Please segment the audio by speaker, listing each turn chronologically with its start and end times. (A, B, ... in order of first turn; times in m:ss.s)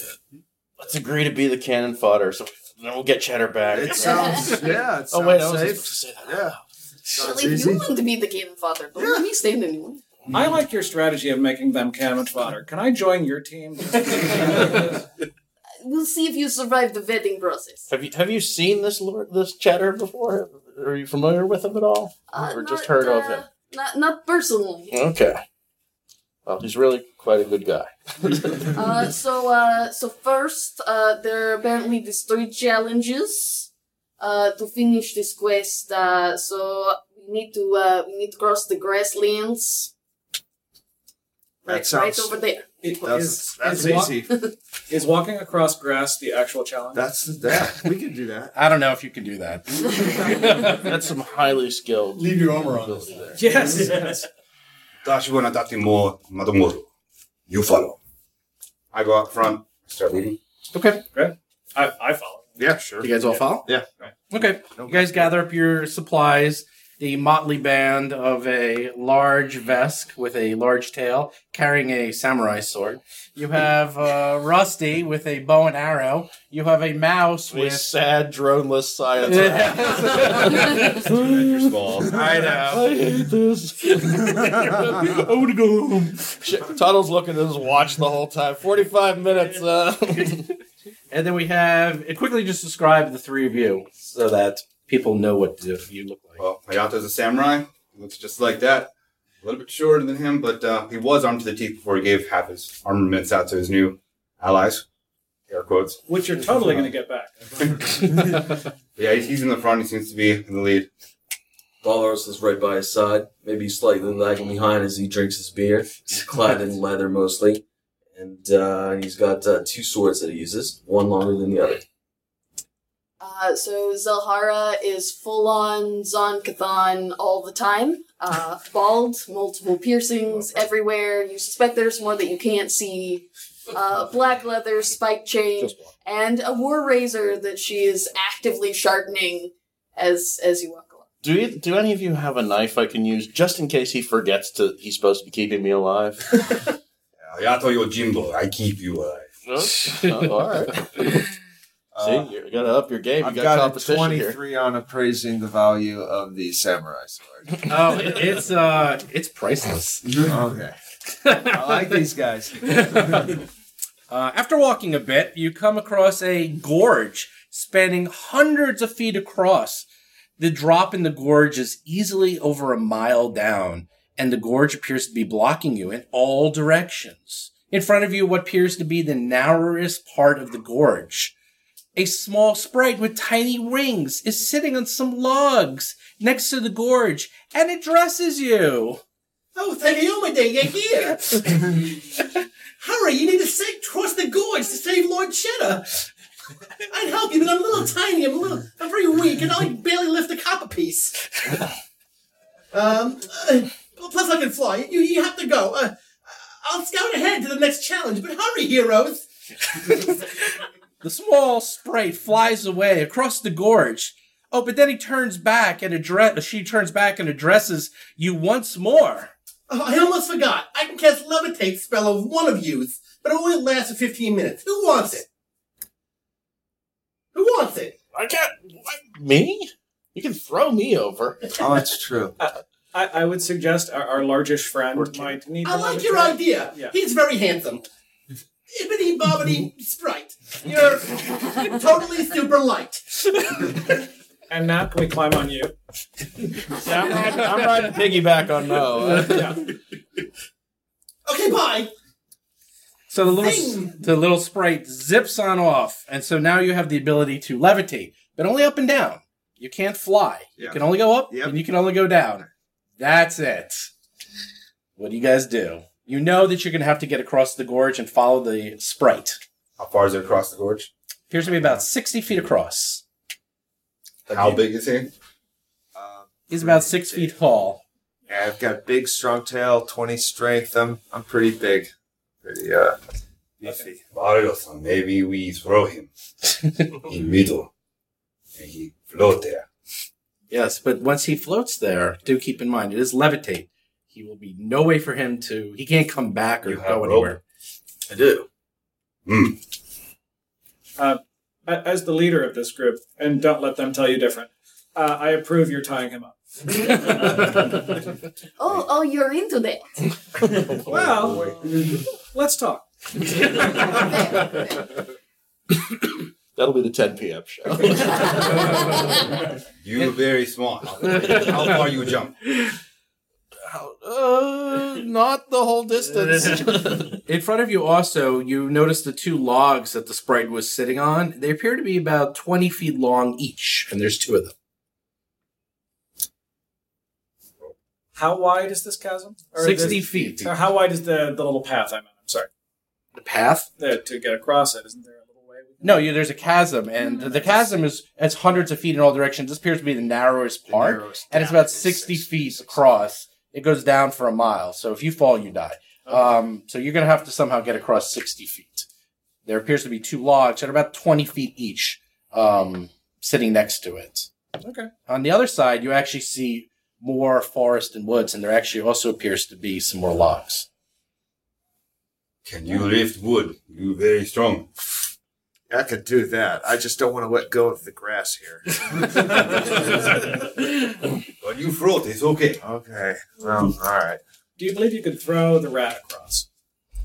0:00.8-0:06.5 A
0:03.7-0:06.6 B
0:04.0-0:04.6 C
0:07.1-0:07.9 B
0:07.2-0:10.0 C
0:09.0-0:09.3 B
0:10.3-0:15.0 D
0:15.8-0:17.9 C
0:17.9-0:23.4 A
0:22.3-0:24.9 C
0:24.9-0:25.4 A
0:26.5-0:28.8 A
0:28.7-0:33.7 C
0:34.2-0:39.9 C
0:41.6-0:42.8 C
0:41.6-0:42.4 B
0:42.8-0:44.2 D
0:43.0-0:44.3 B
0:44.0-0:44.5 C
0:44.9-0:47.0 D
0:46.9-0:48.5 B
0:48.5-0:50.9 E
0:50.6-0:53.4 A
0:52.4-0:53.0 F
0:53.3-0:54.3 D
0:55.0-0:56.9 G
0:57.5-0:58.0 G
0:58.9-1:00.4 G
1:00.7-1:01.0 E
1:01.1-1:03.4 D
1:02.6-1:03.1 B
1:03.0-1:03.7 E
1:04.3-1:17.9 E
1:04.6-1:05.3 B
1:17.5-1:30.6 A
1:19.2-1:21.0 E
1:21.0-1:22.2 G
1:22.1-1:22.9 E
1:31.1-1:36.4 E
1:36.4-1:44.8 G
1:45.5-1:46.0 G
1:46.1-1:48.0 D
1:48.2-1:50.9 G
1:51.8-1:57.6 H
1:58.1-2:01.8 H
2:03.2-2:21.0 C
2:21.2-2:26.4 A
2:27.3-2:29.4 G
2:29.4-2:31.2 A
2:29.9-2:30.3 E
2:31.9-2:32.3 B
2:32.0-2:34.4 A
2:33.2-2:37.5 B
2:37.6-2:40.2 E
2:40.2-2:40.8 B
2:41.2-2:41.8 E
2:41.3-2:43.3 B
2:42.7-2:43.3 E
2:44.1-2:49.8 E
2:50.4-3:01.3 E
3:02.0-3:09.0 E
3:09.6-3:11.8 F
3:12.8-3:16.0 F
3:16.9-3:21.2 F
3:22.7-3:29.3 F
3:31.0-3:39.3 E
3:39.7-3:45.2 F
3:47.3-3:47.9 F
3:48.1-3:51.5 A
3:51.6-3:52.3 B
3:52.4-3:57.0 D
3:55.0-3:55.3 A
3:55.6-3:57.8 F
3:58.7-4:03.3 F
4:04.5-4:05.7 D
4:06.8-4:09.6 A
4:09.1-4:09.6 D
4:11.2-4:11.9 F
4:13.1-4:22.4 E
4:13.3-4:14.0 F
4:20.6-4:21.6 B
4:23.0-4:23.9 E
4:25.0-4:29.4 E
4:29.8-4:30.9 G
4:31.3-4:33.0 E
4:34.3-4:35.1 G
4:35.9-4:37.3 B
4:36.5-4:37.8 E
4:38.3-4:41.9 B
4:42.4-4:43.0 B
4:43.6-4:44.0 B
4:43.6-4:46.1 G
4:46.9-4:47.7 G
4:48.6-4:49.6 G
4:50.5-4:57.4 E
4:56.6-4:57.4 G
4:58.1-4:58.5 H
4:59.3-4:59.6 G
5:01.0-5:07.3 D
5:08.6-5:09.9 C
5:10.8-5:12.9 D
5:10.9-5:11.3 G
5:13.9-5:14.9 C
5:16.5-5:18.9 A
5:19.8-5:22.4 G
5:23.7-5:27.2 A
5:26.1-5:34.5 E
5:38.1-5:42.5 D
5:39.6-5:40.5 E
5:39.7-5:40.5 G
5:43.2-5:43.7 E
5:43.8-5:46.1 D
5:45.8-5:58.9 E
5:47.2-5:47.6 D
5:50.7-5:52.9 B
5:56.0-5:56.3 D
5:59.4-6:04.3 E
6:04.6-6:04.9 D
6:05.1-6:10.7 E
6:12.4-6:14.7 G
6:15.7-6:19.9 B
6:21.4-6:22.6 G
6:22.6-6:24.2 B
6:24.6-6:26.4 D